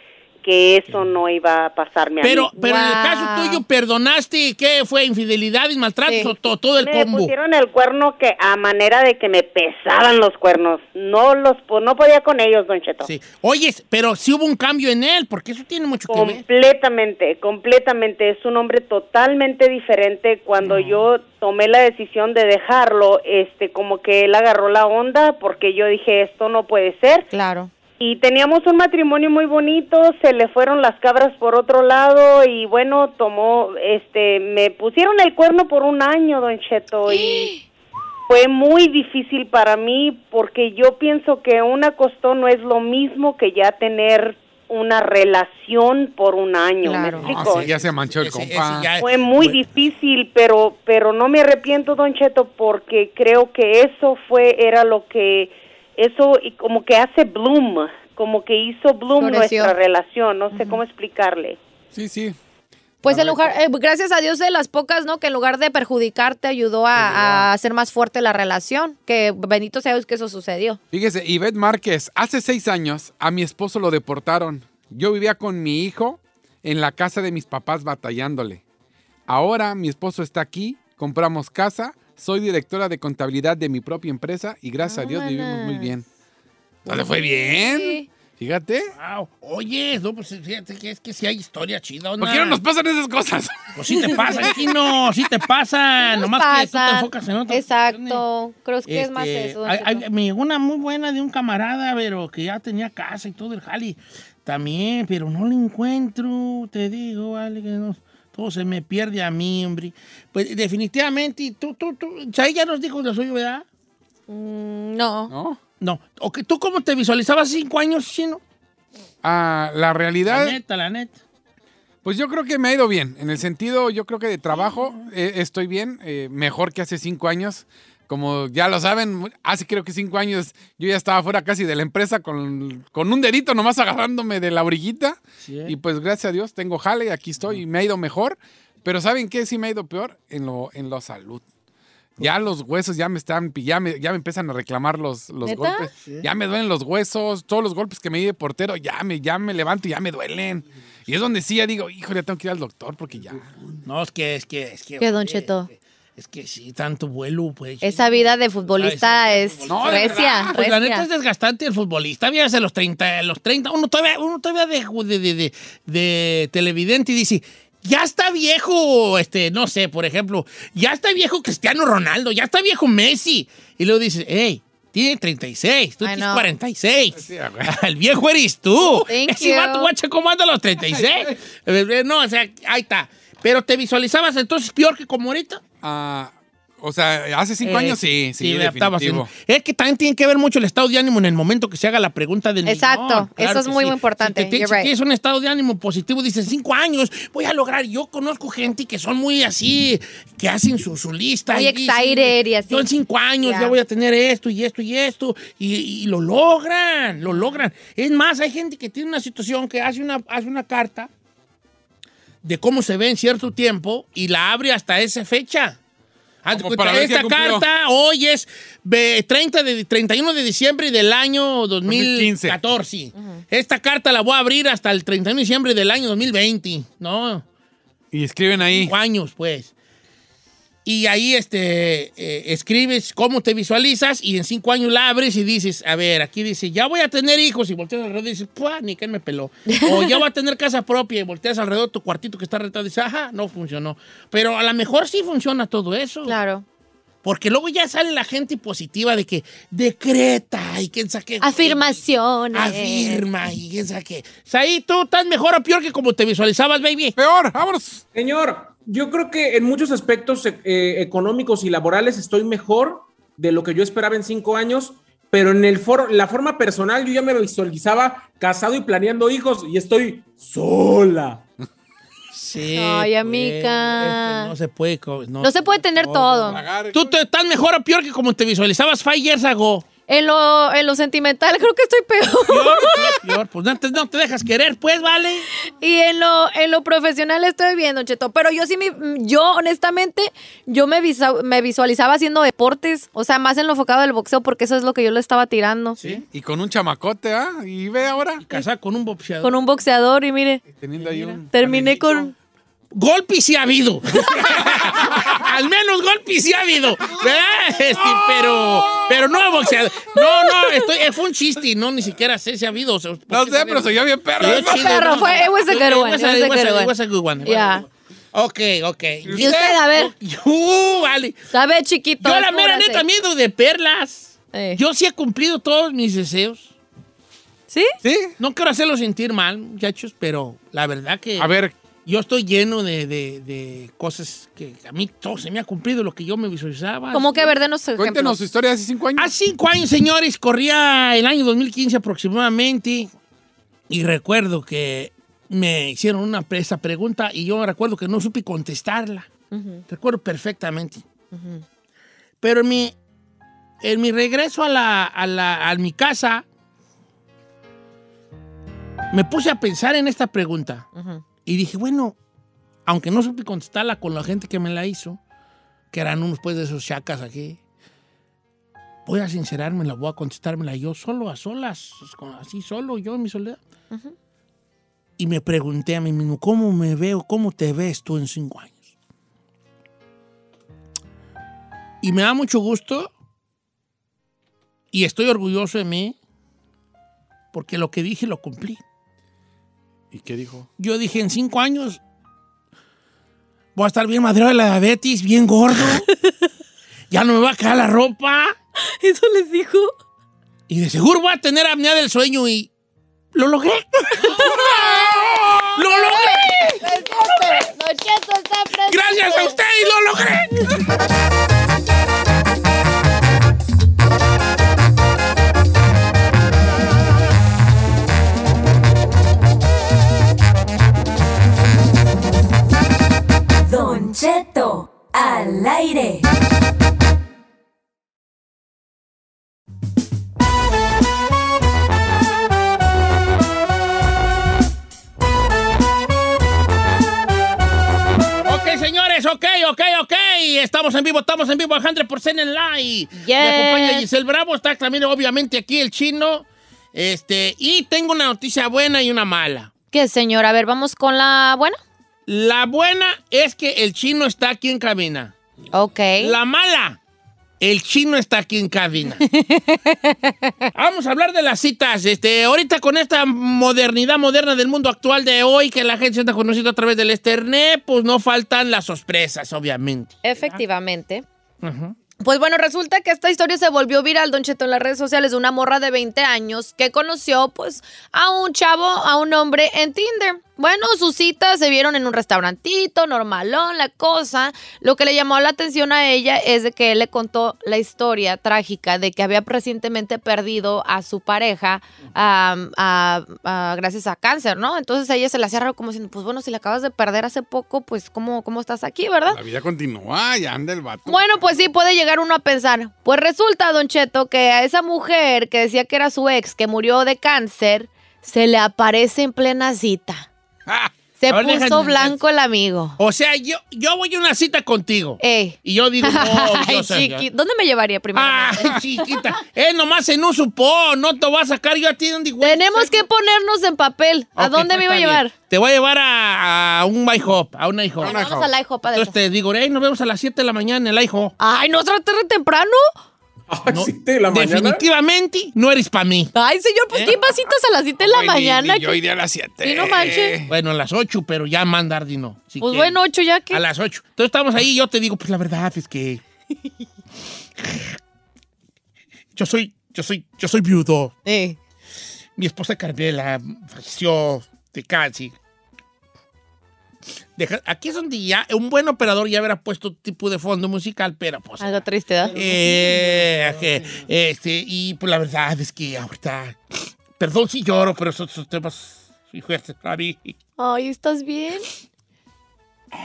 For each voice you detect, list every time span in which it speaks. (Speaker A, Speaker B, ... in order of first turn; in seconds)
Speaker A: 0.4-2.5, 6.8-13.1, 16.1-27.3, 28.0-37.5, 38.3-47.7, 49.0-61.6
Speaker B: 2.2-7.3, 13.0-16.4, 47.2-49.6, 63.1-63.4, 67.0-67.5, 89.0-92.6, 93.7-98.2, 98.9-113.7, 115.8-118.4, 120.2-121.2, 135.4-135.8, 146.0-146.3, 153.8-158.1, 158.8-185.6, 187.6-211.1, 212.4-215.8, 216.4-227.4, 228.6-229.7, 230.8-246.4, 247.2-257.1, 272.3-279.9, 282.5-285.5, 296.0-296.2, 298.4-299.5, 301.0-301.4, 302.9-321.4, 322.2-326.7, 328.4-331.5, 332.1-337.6, 339.2-343.1, 343.9-349.3, 349.9-351.0, 352.4-352.9, 353.8-356.4, 359.1-360.9, 361.5-362.2, 362.9-365.2, 365.9-367.6, 369.1-373.6, 375.2-378.9, 382.0-383.1, 384.9-386.2, 387.5-388.8, 390.8-392.0, 393.8-396.1, 397.1-398.6, 400.7-402.7, 403.3-404.5, 405.7-406.9, 408.9-410.8, 438.4-449.7, 452.3-455.3, 456.2-457.0, 457.6-459.2, 460.7-470.2, 471.6-471.9, 511.3-512.2, 513.0-517.3, 518.1-523.0, 524.4-528.2, 528.9-531.3, 533.7-536.3, 536.9-537.2, 540.5-546.2, 547.6-548.0, 549.4-551.1, 552.4-555.4, 557.4-561.8, 562.3-566.6, 567.2-570.4
Speaker C: 2.6-3.6, 6.0-6.3, 20.6-21.0, 27.3-27.7, 37.1-37.6, 46.8-47.3, 59.2-59.7, 60.5-60.8, 63.0-70.8, 84.8-85.9, 86.9-88.1, 96.0-100.0, 114.3-115.3, 145.4-145.9, 155.0-155.7, 157.8-161.1, 176.0-176.5, 178.8-179.9, 192.7-194.9, 201.5-202.9, 203.4-203.8, 223.2-223.4, 239.8-240.2, 246.3-246.7, 251.4-253.2, 272.5-274.5, 275.4-276.6, 280.1-283.3, 285.8-296.0, 299.4-300.6, 301.5-302.3, 314.4-316.9, 317.4-317.9, 319.4-320.1, 321.5-323.1, 324.5-324.8, 327.7-327.9, 337.1-338.4, 349.5-349.8, 351.3-351.6, 361.0-361.2, 398.8-399.9, 404.3-409.6, 443.2-444.1, 449.9-451.8, 455.7-456.4, 459.1-460.6, 470.2-471.2, 472.2-499.4, 501.1-510.3, 511.2-513.0, 515.2-519.0, 522.4-525.3, 528.0-529.1, 531.4-532.9, 536.3-539.0, 539.6-540.4, 542.6-543.6, 551.3-551.6, 561.6-562.4, 570.6-571.7
Speaker D: 47.3-48.9, 61.9-62.4, 70.9-78.6, 79.3-86.0, 86.9-88.9, 92.2-94.5, 115.3-115.6, 119.2-120.6, 122.0-141.4, 142.2-153.5, 159.7-160.6, 177.2-177.8, 180.8-181.3, 185.8-189.3, 216.5-217.7, 221.9-222.6, 228.1-228.9, 257.2-258.0, 276.5-277.1, 296.3-298.5, 300.6-302.3, 304.4-305.4, 307.9-309.7, 313.3-315.7, 319.3-319.5, 328.0-328.3, 331.4-331.8, 338.0-339.3, 390.1-390.7, 404.3-405.7, 499.3-501.2, 528.0-528.5, 538.0-540.5
Speaker E: 258.1-271.4, 533.5-534.8
Speaker F: 423.6-426.2